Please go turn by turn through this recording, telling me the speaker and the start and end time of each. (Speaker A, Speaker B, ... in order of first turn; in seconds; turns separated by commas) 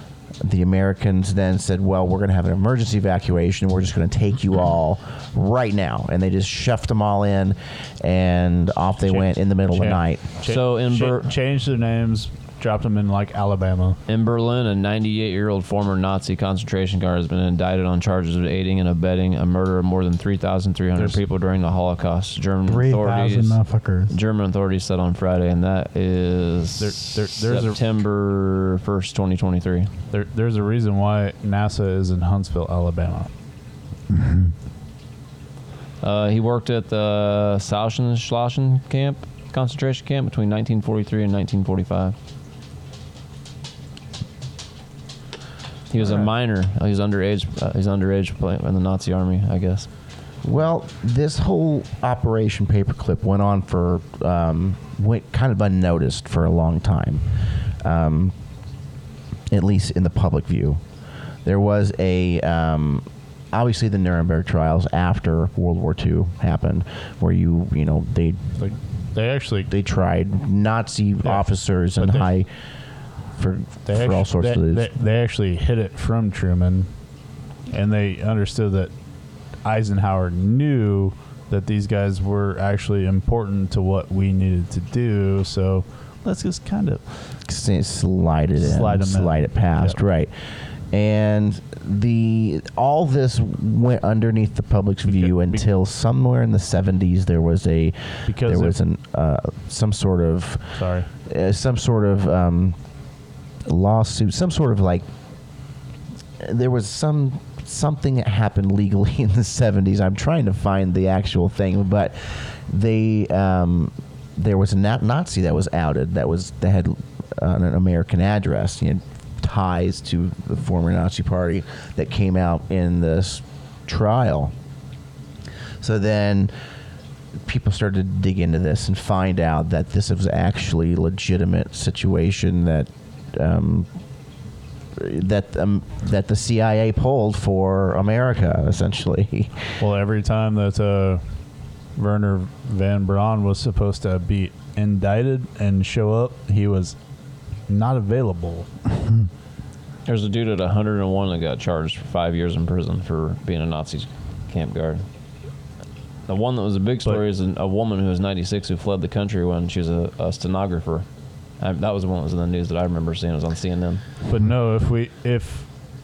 Speaker A: 0.4-10.2, Speaker B: 9.0-14.0, Speaker C: 10.4-11.3, Speaker C: 14.1-23.6, Speaker D: 22.6-24.1, Speaker C: 24.1-29.9, Speaker B: 26.8-27.8, Speaker B: 30.1-33.3, Speaker D: 34.1-34.5, Speaker C: 36.0-42.1, Speaker C: 45.9-49.9, Speaker A: 50.4-57.2, Speaker A: 57.8-58.3, Speaker A: 59.5-60.8, Speaker A: 61.4-68.5, Speaker B: 68.6-69.7, Speaker A: 69.7-72.5, Speaker B: 72.0-72.3, Speaker A: 73.4-74.9, Speaker B: 73.9-76.9, Speaker B: 77.7-78.9, Speaker B: 79.6-87.1, Speaker A: 87.5-90.3, Speaker B: 88.6-90.0, Speaker A: 90.9-102.8, Speaker B: 95.0-95.7, Speaker B: 98.2-98.8, Speaker B: 100.7-101.1, Speaker A: 103.7-105.0, Speaker A: 106.4-124.5, Speaker A: 125.8-126.5, Speaker A: 127.4-133.9, Speaker A: 134.9-139.7, Speaker B: 139.8-141.2, Speaker B: 142.0-146.9, Speaker B: 147.7-148.7, Speaker C: 150.1-155.1, Speaker C: 156.3-161.1, Speaker C: 161.6-164.0, Speaker B: 164.2-165.7